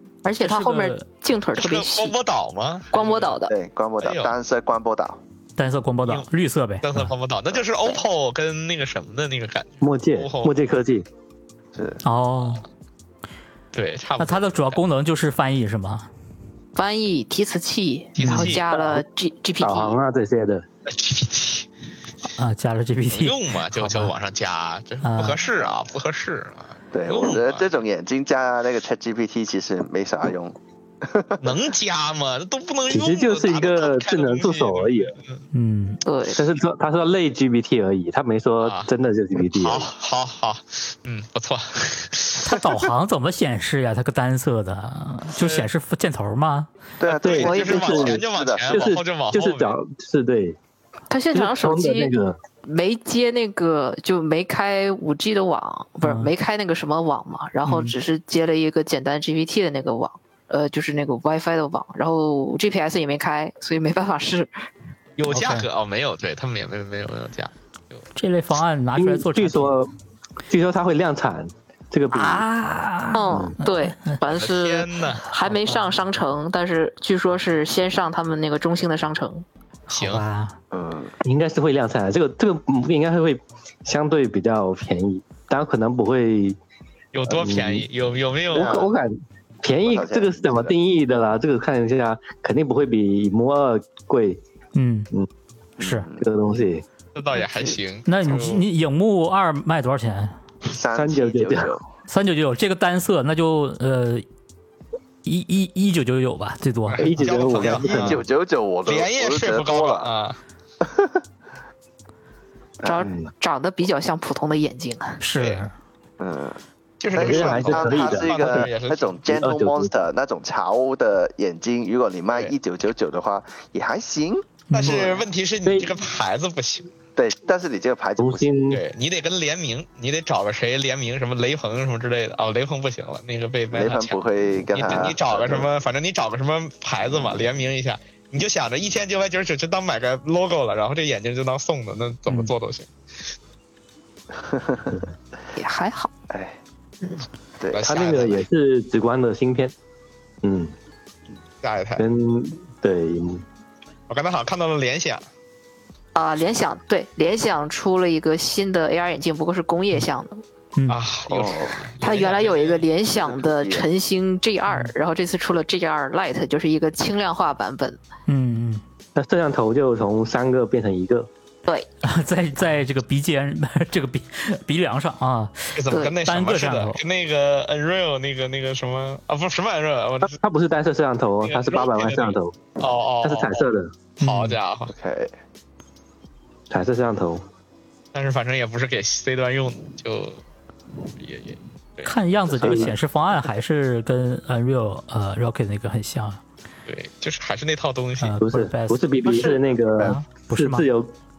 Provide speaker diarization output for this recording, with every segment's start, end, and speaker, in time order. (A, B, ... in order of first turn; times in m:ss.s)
0:00.2-0:02.2 A
0:00.4-0:01.0 B
0:01.6-0:03.4 C
0:02.9-0:03.5 A
0:03.5-0:05.2 D
0:04.0-0:04.3 C
0:05.6-0:07.1 B
0:06.8-0:10.6 C
0:07.5-0:07.9 D
0:09.8-0:11.1 E
0:11.7-0:12.0 D
0:12.0-0:12.6 B
0:13.7-0:14.8 C
0:14.2-0:16.1 B
0:16.8-0:20.0 A
0:18.2-0:18.6 C
0:18.2-0:18.5 B
0:18.3-0:19.0 E
0:19.6-0:20.7 E
0:20.9-0:21.7 C
0:22.4-0:24.1 B
0:23.1-0:27.7 C
0:25.0-0:25.4 B
0:26.9-0:31.5 D
0:31.4-0:35.4 C
0:32.9-0:35.2 E
0:35.5-0:36.0 B
0:36.0-0:36.4 A
0:36.3-0:39.9 E
0:38.6-0:38.9 C
0:39.4-0:42.4 C
0:42.4-0:46.7 B
0:45.3-0:45.7 C
0:47.0-0:48.9 D
0:47.0-0:49.8 C
0:47.2-0:48.2 E
0:47.4-0:48.1 A
0:48.7-0:50.6 E
0:51.1-0:52.1 A
0:51.3-0:52.4 E
0:52.6-1:04.5 A
0:56.0-0:56.3 B
0:57.6-0:58.0 B
1:05.2-1:08.0 C
1:05.3-1:05.7 B
1:08.2-1:09.8 B
1:09.0-1:09.9 E
1:10.5-1:12.5 E
1:12.1-1:14.2 B
1:13.1-1:19.4 A
1:14.3-1:15.3 C
1:15.5-1:15.8 B
1:19.9-1:20.6 B
1:19.9-1:20.2 C
1:20.7-1:21.1 D
1:21.2-1:26.6 E
1:27.1-1:28.8 C
1:27.3-1:27.9 E
1:28.5-1:28.9 D
1:28.5-1:34.4 E
1:29.8-1:30.7 D
1:34.8-1:35.1 B
1:35.8-1:36.2 D
1:35.8-1:36.1 B
1:36.2-1:36.8 E
1:37.2-1:38.6 C
1:38.1-1:40.4 B
1:40.7-1:41.8 D
1:41.0-1:41.8 E
1:42.1-1:44.2 B
1:45.2-1:47.1 B
1:46.9-1:48.2 C
1:47.0-1:48.2 E
1:47.6-1:50.1 D
1:48.9-1:50.4 C
1:50.8-1:51.2 D
1:52.8-1:53.1 D
1:52.8-1:55.2 A
1:55.2-1:55.7 B
1:55.4-1:55.6 C
1:56.2-1:56.6 D
1:57.0-1:59.2 C
1:57.2-2:04.5 D
1:57.2-1:58.7 E
1:59.3-1:59.9 E
2:04.7-2:05.1 B
2:04.7-2:06.9 C
2:05.7-2:05.9 E
2:07.2-2:08.5 D
2:08.2-2:08.8 E
2:08.7-2:14.2 C
2:13.7-2:15.7 D
2:14.7-2:22.9 C
2:24.4-2:25.0 D
2:25.6-2:26.1 A
2:26.3-2:26.6 D
2:27.6-2:28.3 D
2:27.7-2:28.4 C
2:27.8-2:29.7 E
2:30.4-2:30.7 E
2:31.6-2:32.0 C
2:32.0-2:33.4 E
2:34.1-2:35.2 C
2:36.2-2:40.4 A
2:40.8-2:41.0 B
2:40.9-2:42.9 C
2:41.3-2:41.8 D
2:42.0-2:48.0 A
2:43.1-2:43.9 D
2:48.3-2:48.8 B
2:49.2-2:51.3 E
2:52.0-2:57.0 B
2:55.8-3:00.4 C
2:55.9-2:56.2 A
3:00.2-3:02.6 E
3:01.4-3:03.6 C
3:03.2-3:03.9 E
3:04.2-3:04.6 B
3:04.2-3:04.9 C
3:04.9-3:05.3 D
3:06.7-3:07.4 E
3:08.1-3:10.4 C
3:11.2-3:12.1 C
3:12.0-3:16.4 B
3:12.6-3:12.9 D
3:12.6-3:12.9 E
3:16.9-3:18.4 C
3:18.2-3:19.1 B
3:18.4-3:21.1 E
3:20.0-3:20.9 B